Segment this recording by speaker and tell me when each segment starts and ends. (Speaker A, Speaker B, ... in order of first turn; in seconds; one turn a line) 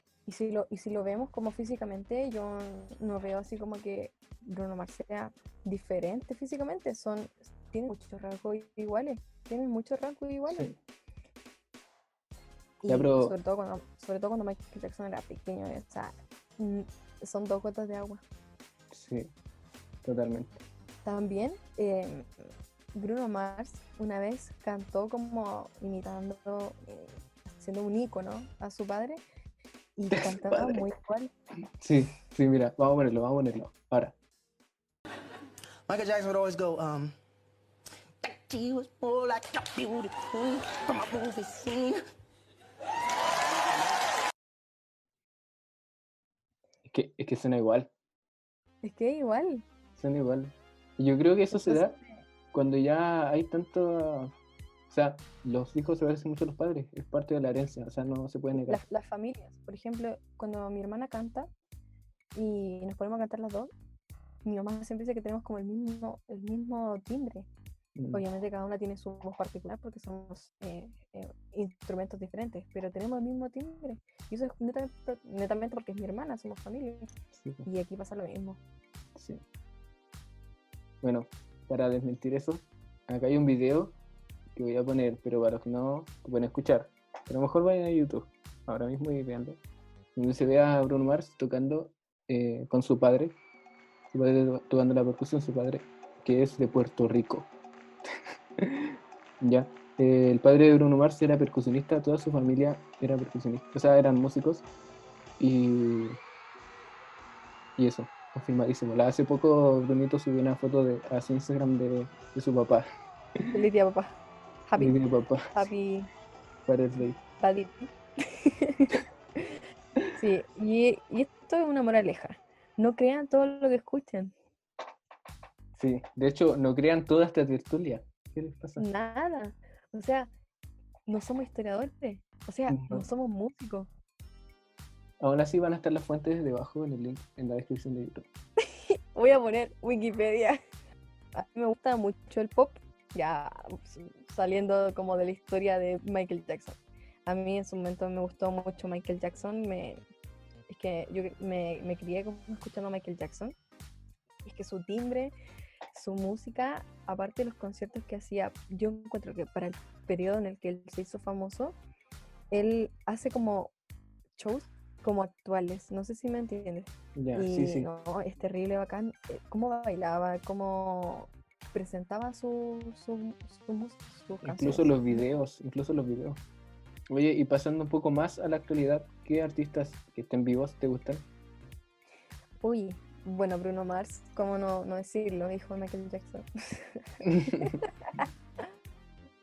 Speaker A: 0.3-10.7
Speaker A: 12.8-18.2
Speaker B: 12.9-13.3
Speaker B: 18.9-19.3
Speaker B: 20.0-20.6
Speaker A: 21.1-22.3
Speaker A: 22.9-29.2
Speaker A: 30.0-31.3
Speaker B: 30.1-30.9
Speaker B: 31.8-34.2
Speaker C: 35.9-37.1
Speaker C: 38.2-42.0
Speaker B: 46.9-47.9
Speaker A: 48.8-49.6
Speaker B: 50.0-52.0
Speaker A: 51.5-52.2
Speaker B: 52.5-54.3
Speaker B: 54.9-58.8
Speaker A: 58.5-61.5
Speaker A: 62.4-63.7
Speaker A: 64.4-67.5
Speaker B: 68.0-68.2
Speaker A: 68.1-77.1
Speaker B: 77.4-77.7
Speaker A: 77.7-78.6
Speaker B: 79.2-79.4
Speaker B: 81.0-84.0
Speaker B: 84.5-89.6
Speaker B: 90.2-93.4
Speaker B: 94.1-97.5
Speaker B: 98.6-104.7
Speaker B: 105.4-106.2
Speaker B: 107.8-112.9
Speaker A: 113.5-115.0
Speaker B: 114.8-115.7
Speaker A: 115.5-116.1
Speaker B: 116.7-117.2
Speaker A: 117.4-119.6
Speaker A: 120.1-124.3
Speaker B: 125.8-128.8
Speaker A: 128.8-130.3
Speaker A: 131.1-133.9
Speaker B: 132.7-133.1
Speaker B: 135.2-138.3
Speaker A: 138.9-140.6
Speaker A: 141.3-150.0
Speaker A: 150.7-153.6
Speaker A: 154.4-155.3
Speaker A: 155.9-161.8
Speaker A: 162.5-163.7
Speaker A: 164.4-175.2
Speaker B: 167.2-167.9
Speaker B: 174.4-176.4
Speaker B: 177.1-181.3
Speaker A: 182.6-188.2
Speaker B: 187.2-187.7